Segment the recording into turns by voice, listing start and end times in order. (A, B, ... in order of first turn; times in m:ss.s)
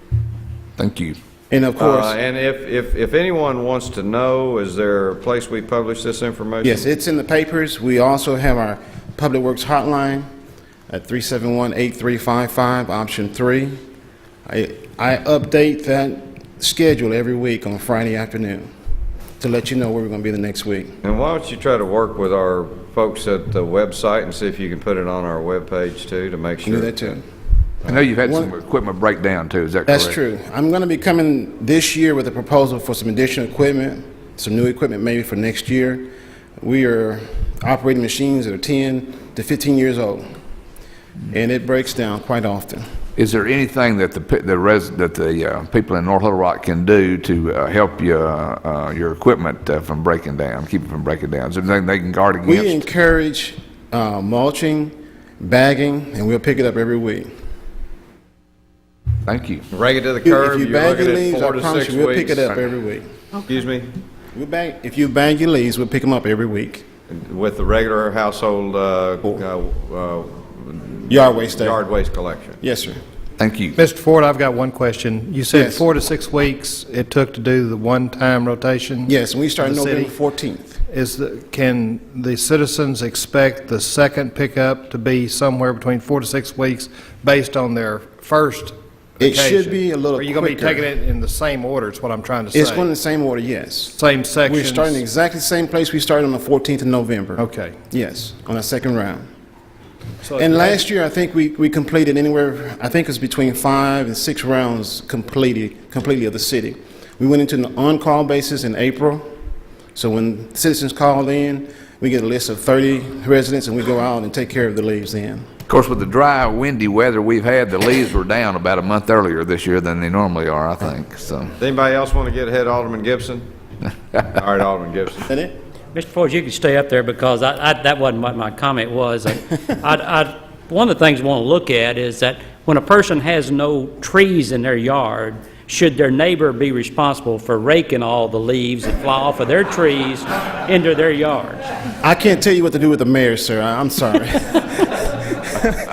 0:00.8-0:01.2 A
0:01.5-0:02.2 B
0:01.8-0:06.9 C
0:06.6-0:10.3 B
0:10.9-0:13.8 B
0:14.5-0:18.7 B
0:19.4-0:21.0 B
0:21.0-0:27.1 C
0:26.6-0:27.2 B
0:27.9-0:30.2 A
0:28.2-0:28.5 B
0:29.9-0:36.1 B
0:36.6-0:40.3 B
0:41.3-0:42.8 B
0:43.2-0:52.8 A
0:52.5-0:57.3 B
0:59.2-0:59.7 A
0:59.7-1:02.5 C
1:00.2-1:03.1 B
1:03.5-1:03.9 C
1:04.3-1:06.8 B
1:07.1-1:12.6 C
1:11.1-1:11.8 B
1:12.6-1:13.0 B
1:13.4-1:13.8 A
1:13.8-1:20.1 D
1:15.5-1:15.8 B
1:19.1-1:20.8 B
1:20.9-1:32.9 D
1:29.2-1:30.8 B
1:32.5-1:39.2 B
1:33.9-1:35.0 D
1:37.4-1:37.8 D
1:40.2-1:40.8 D
1:40.4-1:49.3 B
1:50.0-1:55.5 B
1:55.7-2:01.6 A
2:01.6-2:03.5 C
2:04.3-2:05.2 C
2:05.3-2:05.6 B
2:05.9-2:21.6 E
2:22.0-2:25.7 B